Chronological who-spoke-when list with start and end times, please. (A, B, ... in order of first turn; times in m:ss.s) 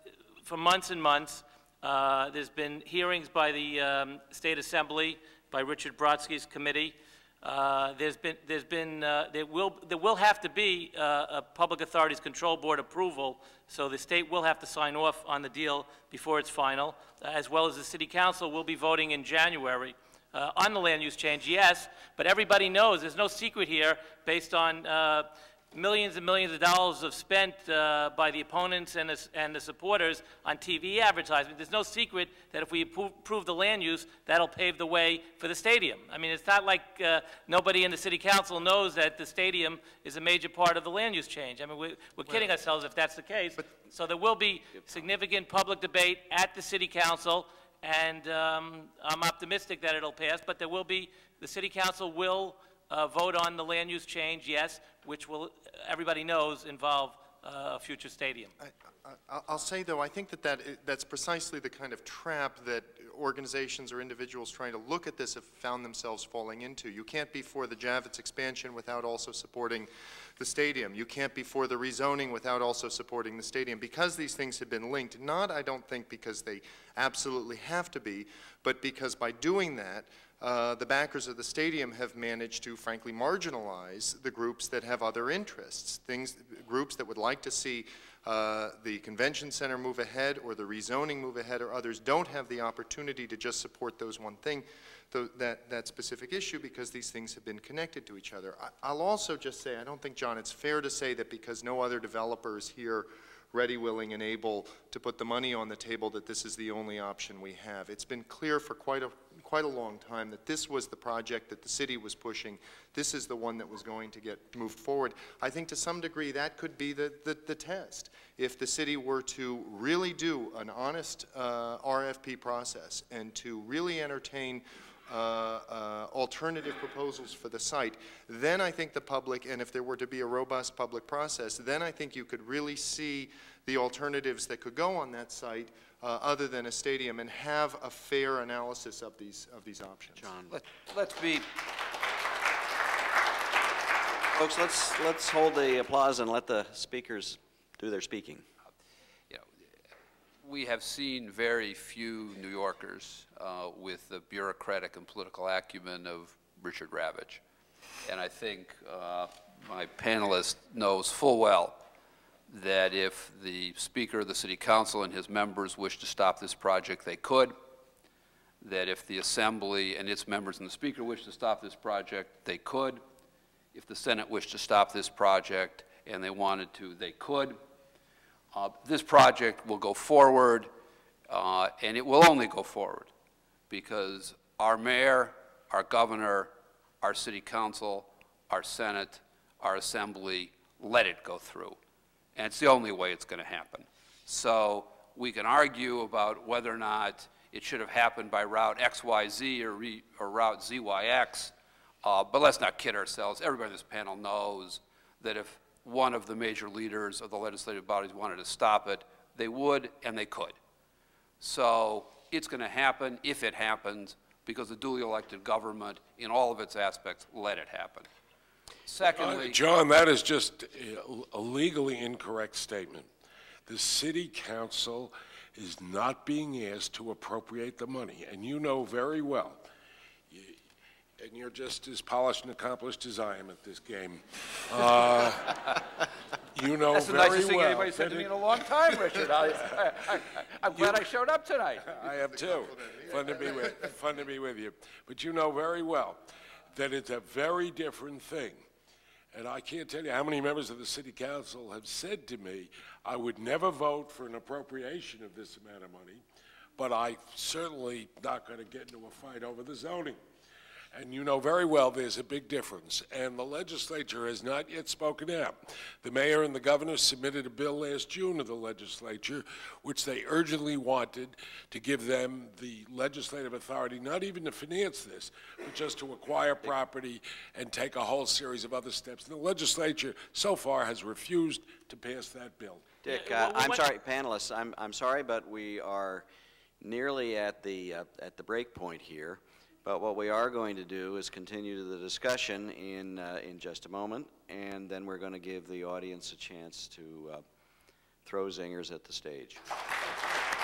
0:00.4-0:58.5 A
0:58.6-2:20.2 B
2:20.2-2:20.5 C
2:20.5-2:21.5 D
2:24.3-2:28.4 C
2:30.4-2:37.4 D
2:38.0-2:41.8 D
2:42.5-2:47.6 D
2:48.6-2:53.0 D
2:53.7-2:57.6 D
2:58.5-3:00.7 D
3:01.3-3:03.1 D
3:03.7-3:11.8 D
3:12.4-3:30.6 D
3:31.4-3:38.1 D
3:38.8-3:39.6 D
3:39.1-3:43.1 E
3:43.7-3:49.6 E
3:50.3-3:50.6 E
3:51.2-3:55.9 E
3:56.5-3:58.4 E
3:56.9-4:02.0 D
3:58.9-3:59.7 E
4:00.7-4:01.1 E
4:01.8-4:06.2 E
4:02.0-4:03.9 B
4:06.7-4:08.6 E
4:09.3-4:16.2 E
4:16.8-4:20.2 E
4:20.9-4:43.0 E
4:43.0-4:46.3 C
4:43.0-4:43.8 A
4:46.8-4:57.4 C
4:58.2-4:59.6 C